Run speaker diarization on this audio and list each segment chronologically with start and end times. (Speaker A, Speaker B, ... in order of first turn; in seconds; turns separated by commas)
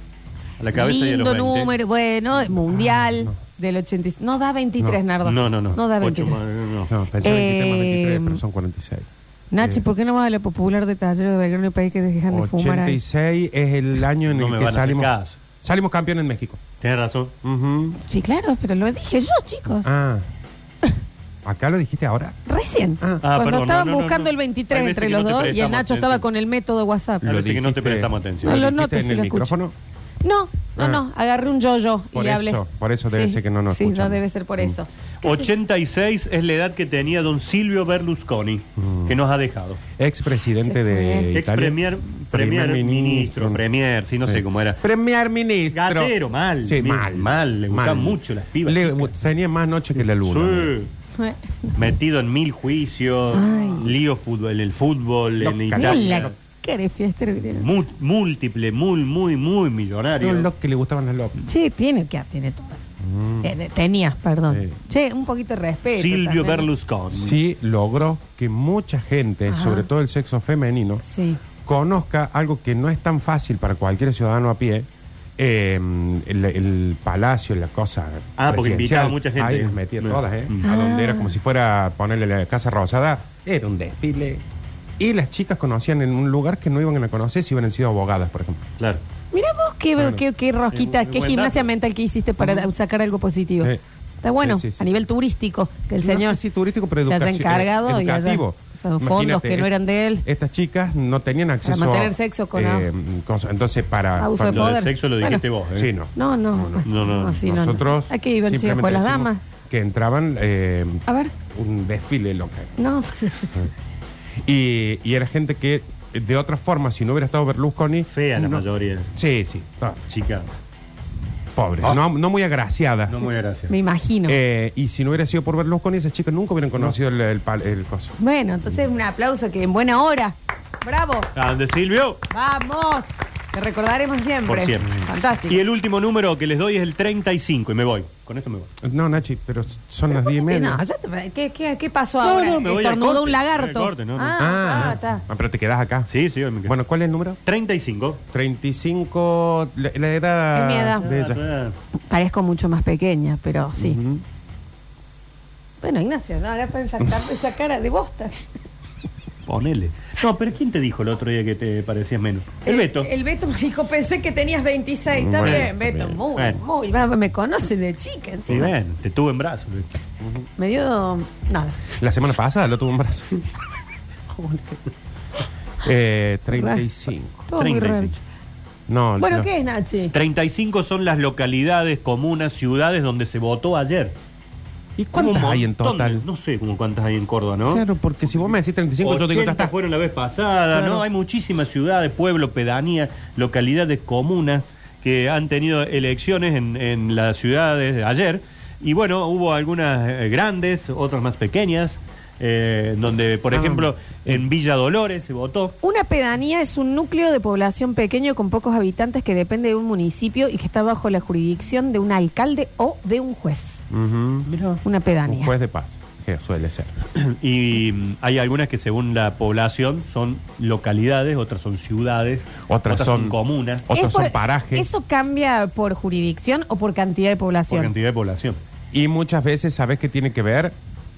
Speaker A: 0.6-1.7, Speaker B: 0.7-6.4, Speaker C: 2.7-3.4, Speaker A: 5.2-6.9, Speaker C: 6.9-9.1, Speaker B: 7.2-8.4, Speaker B: 9.5-13.0, Speaker C: 9.6-9.8, Speaker C: 12.3-16.6, Speaker A: 14.3-15.4, Speaker A: 16.8-17.3, Speaker C: 17.4-18.0, Speaker B: 18.0-19.9, Speaker C: 19.8-20.2, Speaker C: 21.4-22.4, Speaker B: 22.5-27.3, Speaker A: 23.2-26.2, Speaker C: 27.2-29.7, Speaker A: 27.2-28.6, Speaker B: 28.4-29.5, Speaker B: 30.2-35.5, Speaker C: 30.8-31.0, Speaker C: 32.1-34.8, Speaker A: 35.2-39.8, Speaker C: 38.8-39.2, Speaker C: 40.0-41.8, Speaker B: 40.6-41.3, Speaker A: 41.3-44.8, Speaker C: 42.3-43.6, Speaker C: 44.3-50.7, Speaker A: 45.7-49.1, Speaker A: 50.1-50.9, Speaker B: 51.2-51.8, Speaker A: 51.8-56.3, Speaker B: 53.3-53.9, Speaker C: 55.4-56.3, Speaker B: 55.7-57.7, Speaker A: 57.6-60.5, Speaker C: 60.2-61.4, Speaker B: 61.4-62.8, Speaker C: 63.0-63.5, Speaker B: 63.4-66.7, Speaker C: 64.5-64.8, Speaker A: 66.0-67.4, Speaker C: 67.1-71.0, Speaker B: 69.5-69.9, Speaker B: 71.0-71.4, Speaker C: 71.7-74.9, Speaker C: 75.4-84.4, Speaker A: 78.4-80.7, Speaker B: 80.6-81.3, Speaker C: 85.0-88.6, Speaker B: 89.3-96.4, Speaker A: 90.7-91.7, Speaker C: 94.4-94.8, Speaker C: 96.0-99.7, Speaker B: 97.0-100.2, Speaker C: 100.2-104.7, Speaker B: 101.7-102.9, Speaker B: 104.2-105.4, Speaker A: 104.5-105.9, Speaker C: 105.8-112.8, Speaker B: 106.2-109.4, Speaker A: 106.8-107.4, Speaker B: 111.1-111.3, Speaker B: 112.8-113.6, Speaker C: 114.5-118.6, Speaker A: 118.1-119.1, Speaker C: 119.2-120.1, Speaker A: 120.1-120.5, Speaker C: 121.5-123.3, Speaker A: 123.1-123.7, Speaker B: 123.7-124.4, Speaker C: 124.3-128.2, Speaker B: 128.2-131.3, Speaker A: 131.3-132.2, Speaker B: 132.3-135.6, Speaker A: 134.5-138.7, Speaker C: 138.8-140.8, Speaker B: 140.1-145.2, Speaker A: 142.2-144.8, Speaker C: 144.4-146.1, Speaker A: 146.1-146.8, Speaker C: 146.7-147.4, Speaker A: 147.5-148.2, Speaker C: 148.3-151.4, Speaker B: 150.5-151.1, Speaker A: 151.0-151.8, Speaker B: 152.1-154.0, Speaker C: 153.8-154.2, Speaker B: 155.8-158.4, Speaker A: 159.5-163.1, Speaker B: 162.7-168.7, Speaker C: 165.2-166.2, Speaker A: 165.4-165.7, Speaker A: 168.5-169.9, Speaker C: 170.2-170.5, Speaker B: 170.6-171.8, Speaker C: 172.0-173.4, Speaker C: 174.3-174.8, Speaker C: 175.8-177.4, Speaker B: 176.5-176.8, Speaker B: 177.5-178.1, Speaker A: 177.6-178.2, Speaker C: 178.9-179.5, Speaker B: 179.2-180.1, Speaker A: 180.1-184.1, Speaker C: 185.0-186.2, Speaker A: 185.2-187.8, Speaker C: 187.7-189.7, Speaker A: 189.0-205.7, Speaker C: 190.7-191.0, Speaker C: 203.5-204.4, Speaker B: 205.8-213.8, Speaker C: 213.9-214.5, Speaker A: 214.5-214.8, Speaker B: 214.8-215.5, Speaker C: 215.3-216.9, Speaker A: 217.2-223.8, Speaker C: 222.7-224.9, Speaker B: 223.9-227.9, Speaker A: 227.7-228.6, Speaker C: 228.9-230.8